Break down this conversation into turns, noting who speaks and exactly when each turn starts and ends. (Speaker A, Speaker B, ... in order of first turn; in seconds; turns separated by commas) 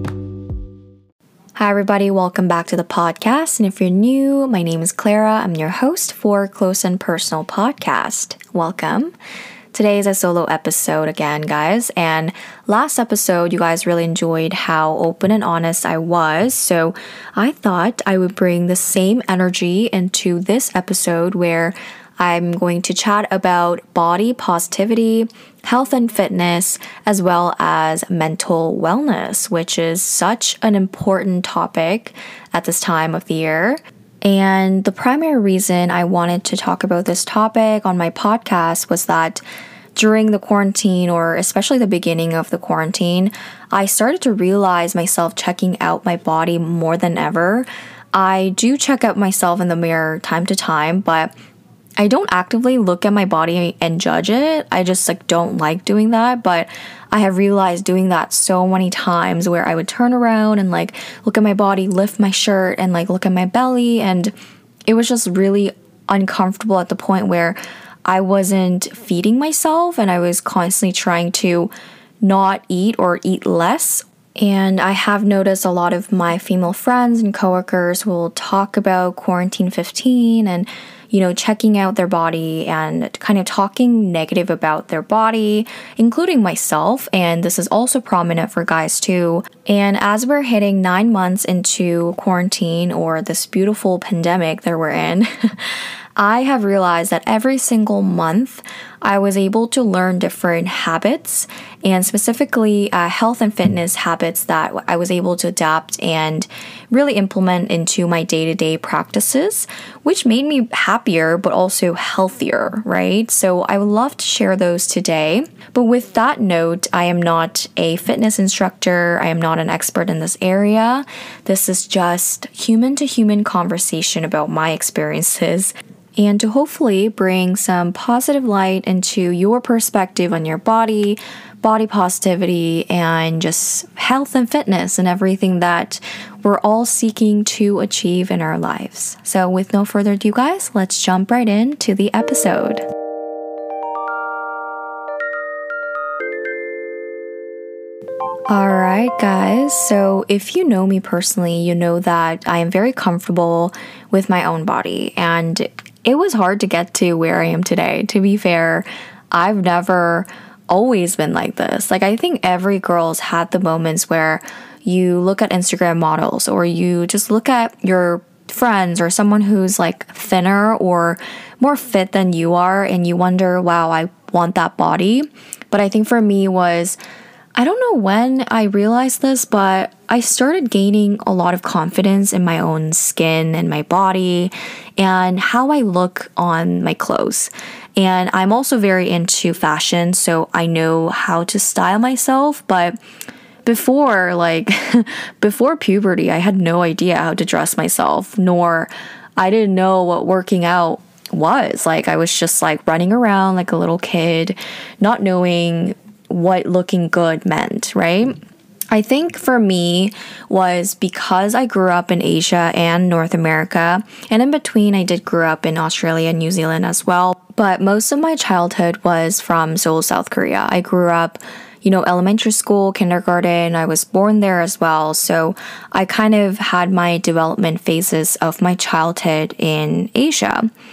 Speaker A: 1.6-9.1, Speaker A: 9.7-39.4, Speaker A: 40.0-51.3, Speaker A: 52.0-64.3, Speaker A: 64.9-142.8, Speaker A: 148.5-177.0, Speaker A: 177.6-193.0, Speaker A: 193.7-208.3, Speaker A: 208.9-230.7